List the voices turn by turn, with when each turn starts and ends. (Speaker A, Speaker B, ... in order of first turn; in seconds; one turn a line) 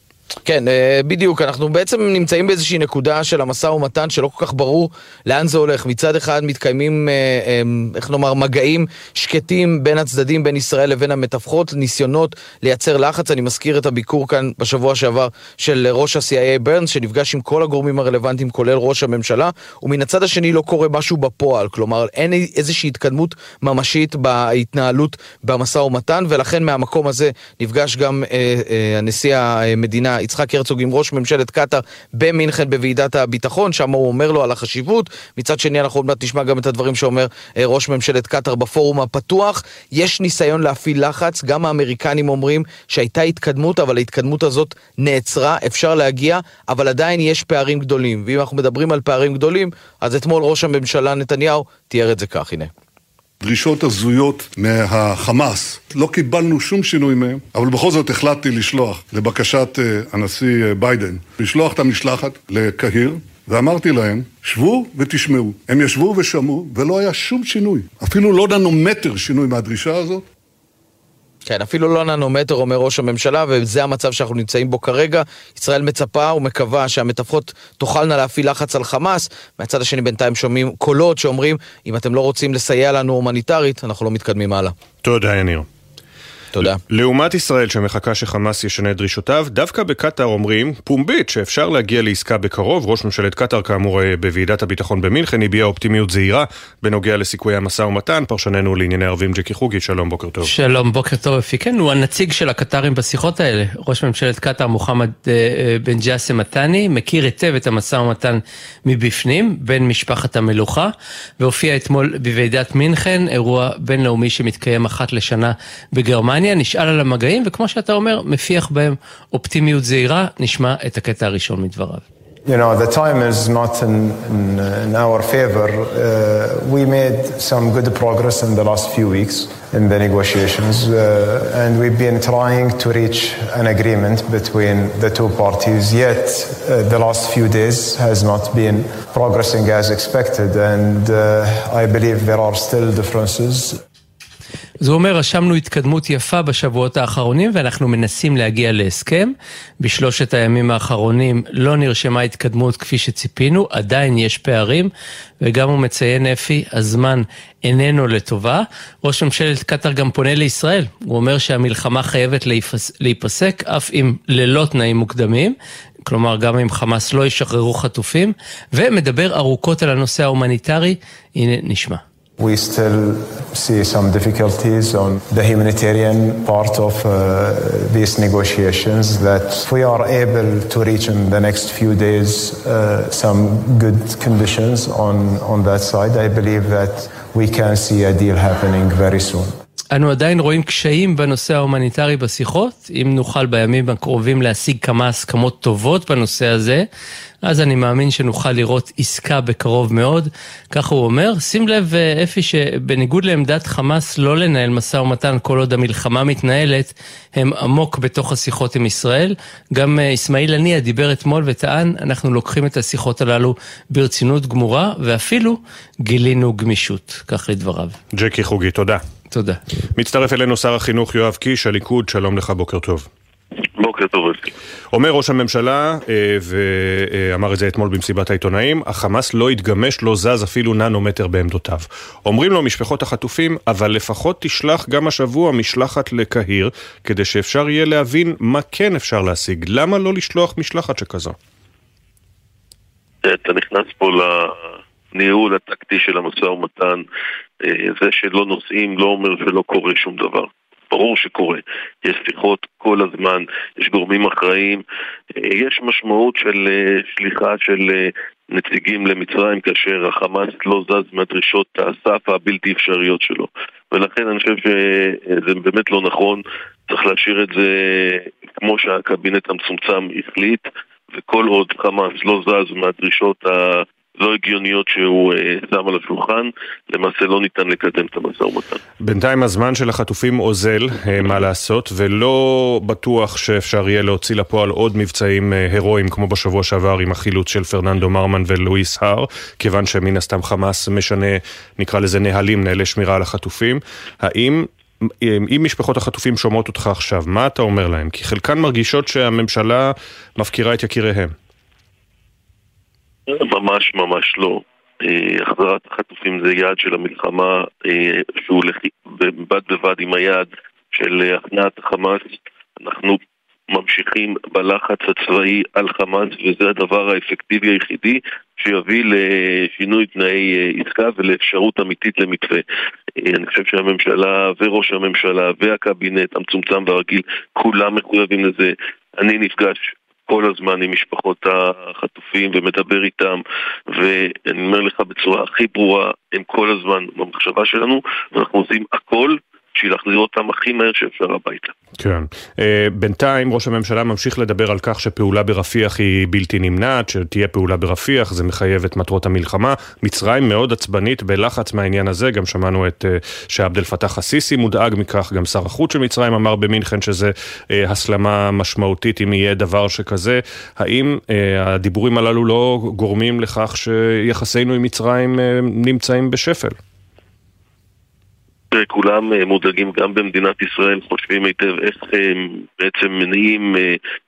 Speaker A: 0.5-52.7
Speaker B: 53.4-70.2
Speaker A: 71.5-84.7
Speaker C: 85.0-85.7
Speaker C: 86.6-100.5
Speaker D: 100.4-122.0
Speaker E: 122.5-143.8
Speaker D: 144.8-172.0
Speaker E: 172.4-189.6
Speaker D: 189.9-196.8
Speaker D: 197.4-217.9
Speaker C: 218.1-219.0
Speaker D: 219.3-219.6
Speaker C: 220.0-223.1
Speaker F: 223.8-224.5
Speaker C: 224.9-241.4
Speaker F: 243.2-247.0
Speaker F: 247.6-254.8
Speaker F: 255.4-278.8
Speaker C: 279.0-301.3
Speaker F: 303.3-313.2
Speaker F: 313.7-322.6
Speaker F: 323.2-341.7
Speaker C: 342.0-366.8
Speaker F: 368.7-374.0